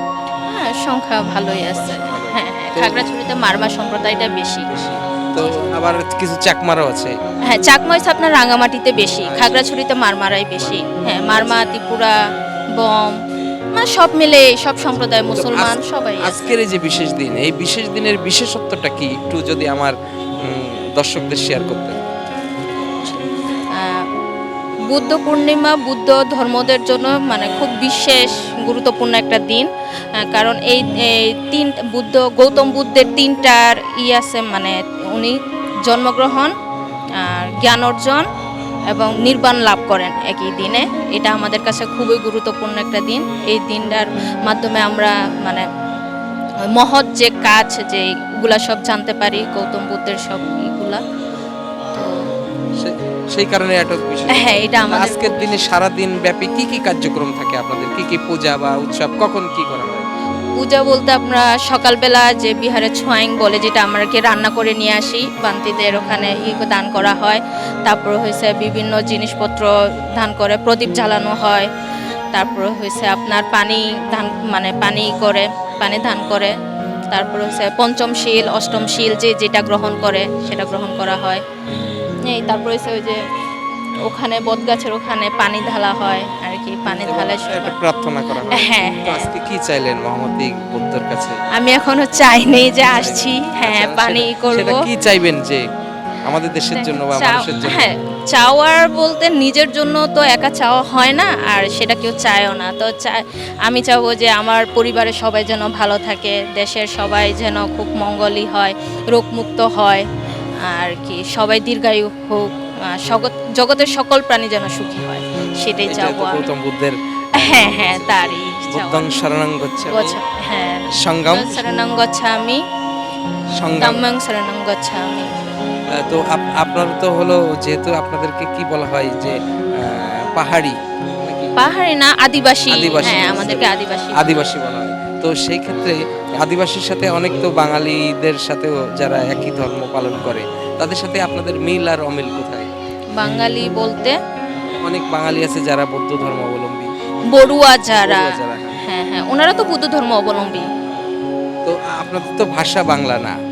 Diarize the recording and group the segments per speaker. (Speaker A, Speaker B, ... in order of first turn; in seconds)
Speaker A: 0.5-4.7, 7.5-12.2, 12.8-13.2, 13.7-16.4, 23.8-24.0, 24.9-36.5, 37.2-38.2, 38.9-45.6, 46.8-51.0, 54.3-55.5, 60.6-71.7, 72.3-76.5, 77.1-81.4, 82.3-83.2, 84.0-87.8, 88.5-89.3, 91.5-94.8, 96.8-110.0, 110.6-116.5, 117.3-119.3, 119.9-122.6, 123.8-125.3, 131.6-134.5, 143.2-144.2, 147.3-150.7
Speaker B: 1.9-3.0, 4.7-7.2, 9.2-9.7, 10.6-11.5, 15.3-22.0, 52.8-60.0, 87.0-91.4, 92.9-95.6, 96.2-97.8, 115.9-120.2, 121.0-121.6, 123.6-124.0, 125.9-131.5, 132.7-142.7, 144.8-146.9, 147.9-148.8, 151.7-153.4